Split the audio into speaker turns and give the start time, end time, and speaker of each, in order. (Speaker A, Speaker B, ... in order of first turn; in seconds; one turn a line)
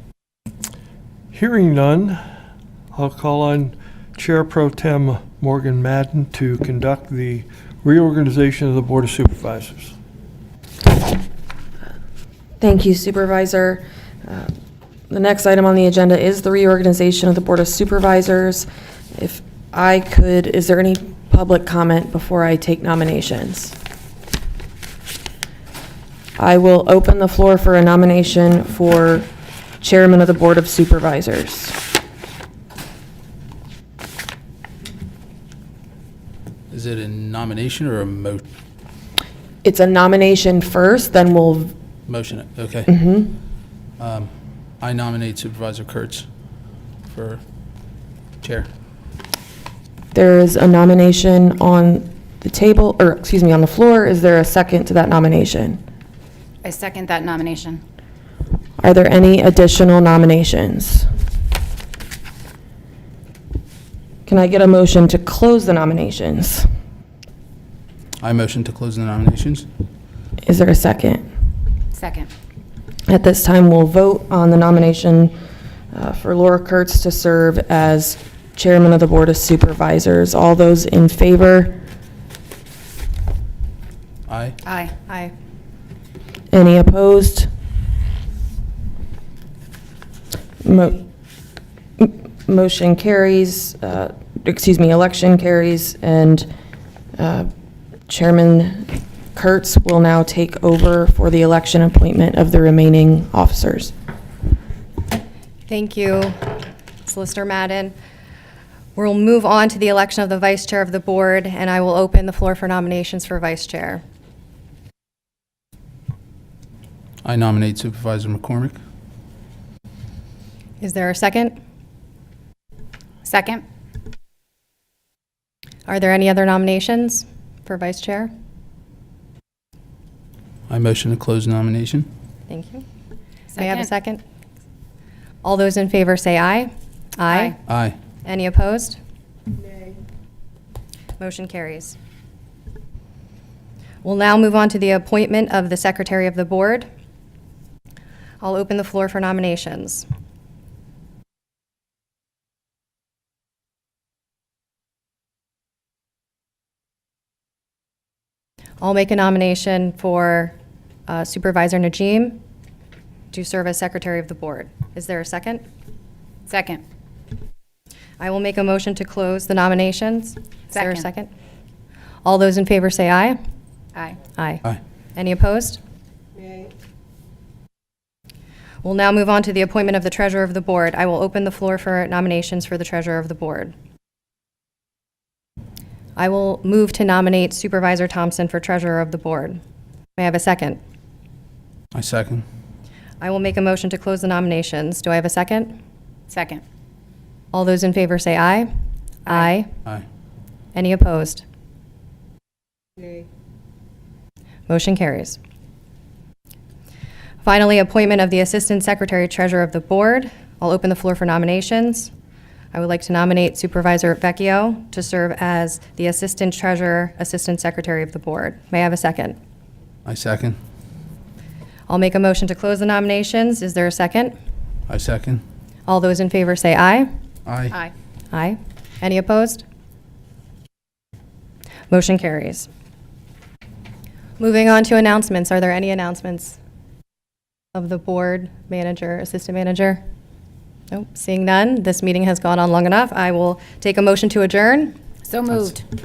Speaker A: 1.3-2.2
Speaker A: 2.9-9.9
Speaker B: 12.6-14.5
Speaker B: 15.1-23.8
Speaker B: 26.4-29.3
Speaker B: 29.8-31.8
Speaker C: 36.7-38.4
Speaker B: 39.6-41.7
Speaker C: 42.1-42.9
Speaker B: 42.9-43.3
Speaker C: 44.0-46.3
Speaker C: 47.1-47.4
Speaker C: 48.4-48.7
Speaker B: 50.1-55.8
Speaker D: 56.6-57.8
Speaker B: 58.8-61.1
Speaker B: 64.2-66.7
Speaker C: 68.2-69.7
Speaker B: 70.4-71.2
Speaker D: 71.9-72.3
Speaker B: 73.1-75.3
Speaker B: 75.9-81.8
Speaker C: 84.3-84.5
Speaker D: 84.6-84.9
Speaker E: 85.1-85.3
Speaker B: 86.5-87.5
Speaker B: 90.6-91.0
Speaker B: 92.0-96.5
Speaker B: 97.2-97.5
Speaker B: 98.1-103.9
Speaker E: 105.7-106.4
Speaker E: 107.0-107.9
Speaker E: 108.9-114.0
Speaker C: 117.2-118.8
Speaker E: 120.8-121.6
Speaker D: 123.2-123.6
Speaker E: 125.9-128.3
Speaker C: 130.7-132.1
Speaker E: 132.5-132.8
Speaker D: 133.5-133.9
Speaker E: 133.6-134.2
Speaker E: 135.4-137.6
Speaker D: 137.3-137.6
Speaker C: 137.7-138.0
Speaker E: 138.2-139.0
Speaker E: 141.2-142.0
Speaker E: 144.0-146.9
Speaker E: 148.4-150.1
Speaker E: 158.8-160.5
Speaker E: 161.1-162.4
Speaker E: 163.3-165.6
Speaker D: 166.5-166.8
Speaker E: 168.2-171.3
Speaker D: 170.7-171.0
Speaker E: 172.2-173.4
Speaker E: 174.3-174.6
Speaker E: 175.1-175.8
Speaker E: 178.8-183.7
Speaker E: 186.2-189.6
Speaker E: 190.2-190.8
Speaker C: 191.9-192.4
Speaker E: 193.2-195.8
Speaker D: 196.3-196.6
Speaker E: 197.5-198.7
Speaker D: 199.2-199.5
Speaker E: 199.2-199.7
Speaker E: 200.7-201.4
Speaker E: 204.7-205.4
Speaker E: 207.4-212.1
Speaker E: 212.7-219.4
Speaker C: 220.1-220.6
Speaker E: 221.9-224.3
Speaker C: 224.9-225.4
Speaker E: 225.9-227.1
Speaker C: 227.4-227.7
Speaker E: 228.3-229.6
Speaker E: 231.9-232.7
Speaker E: 234.4-236.6
Speaker E: 237.7-240.0
Speaker E: 240.9-244.9
Speaker D: 245.2-245.8